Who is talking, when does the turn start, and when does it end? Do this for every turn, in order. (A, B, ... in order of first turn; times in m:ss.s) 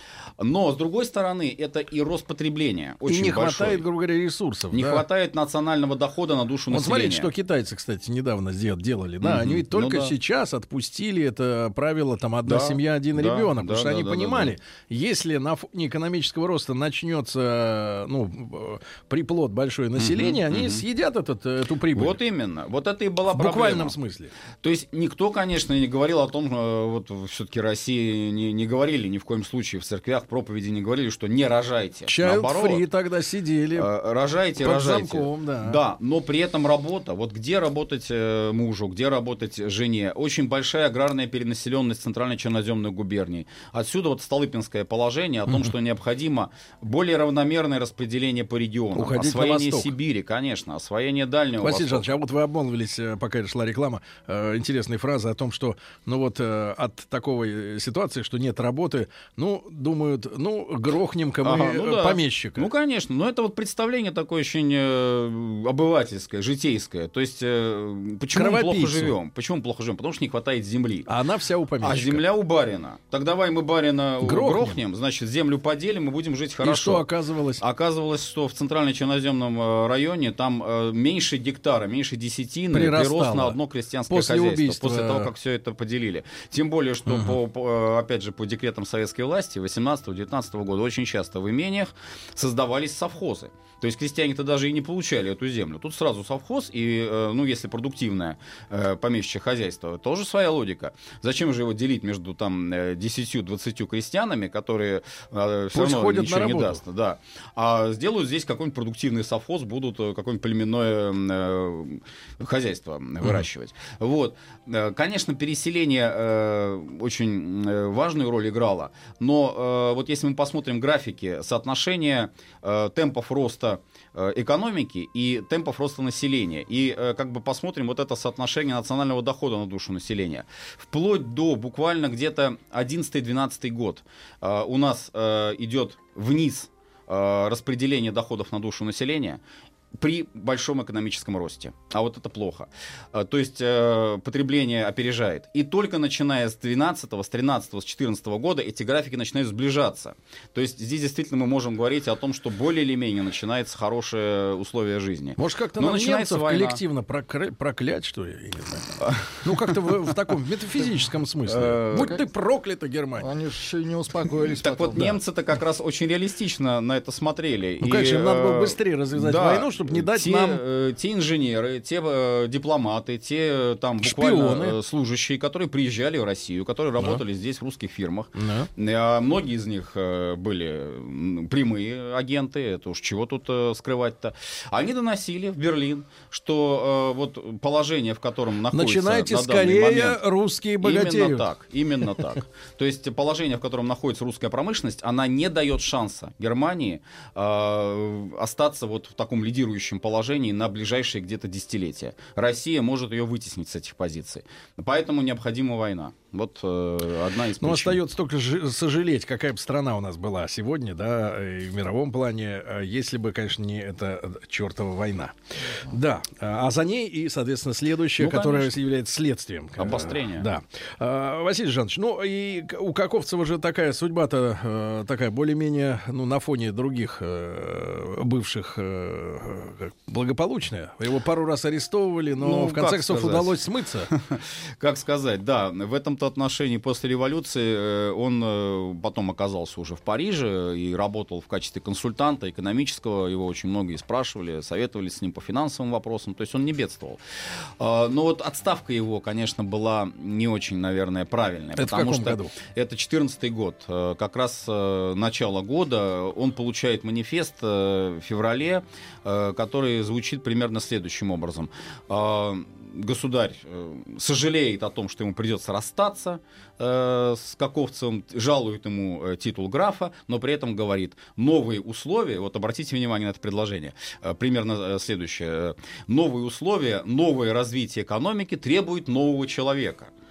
0:00.4-0:03.8 A
0:03.0-0:05.0 B
0:04.7-0:07.3 A
0:06.7-0:22.2 B
0:09.2-0:10.1 A
0:12.4-0:14.5 A
0:20.0-0:20.8 A
0:21.9-0:24.0 A
0:23.3-0:24.3 B
0:24.6-0:32.8 A
0:32.1-0:33.9 B
0:33.8-0:52.1 A
0:34.6-0:35.8 B
0:48.9-0:49.9 B
0:51.6-1:02.7 B
1:01.4-1:11.1 A
1:08.3-1:09.1 B
1:11.1-1:12.2 B
1:11.8-1:17.1 A
1:14.2-1:14.8 B
1:16.6-1:17.6 B
1:17.6-2:19.4 A
1:22.7-1:23.6 B
1:24.1-1:25.3 B
1:27.1-1:27.4 B
1:45.7-1:46.8 B
2:20.0-2:36.8 A
2:35.4-2:43.2 B
2:39.0-2:39.8 A
2:41.5-2:42.1 A
2:41.9-2:42.2 C
2:43.2-2:45.1 C
2:44.6-3:10.2 A
2:47.8-2:50.6 B
2:54.0-2:54.8 B
2:58.4-2:58.7 B
3:08.7-3:11.5 B
3:10.8-3:28.0 A
3:27.6-3:54.1 B
3:38.2-3:38.8 A
3:39.8-3:40.5 A
3:52.4-3:53.6 A
3:54.1-4:07.2 A
4:07.8-4:40.1 A
4:11.8-4:12.5 B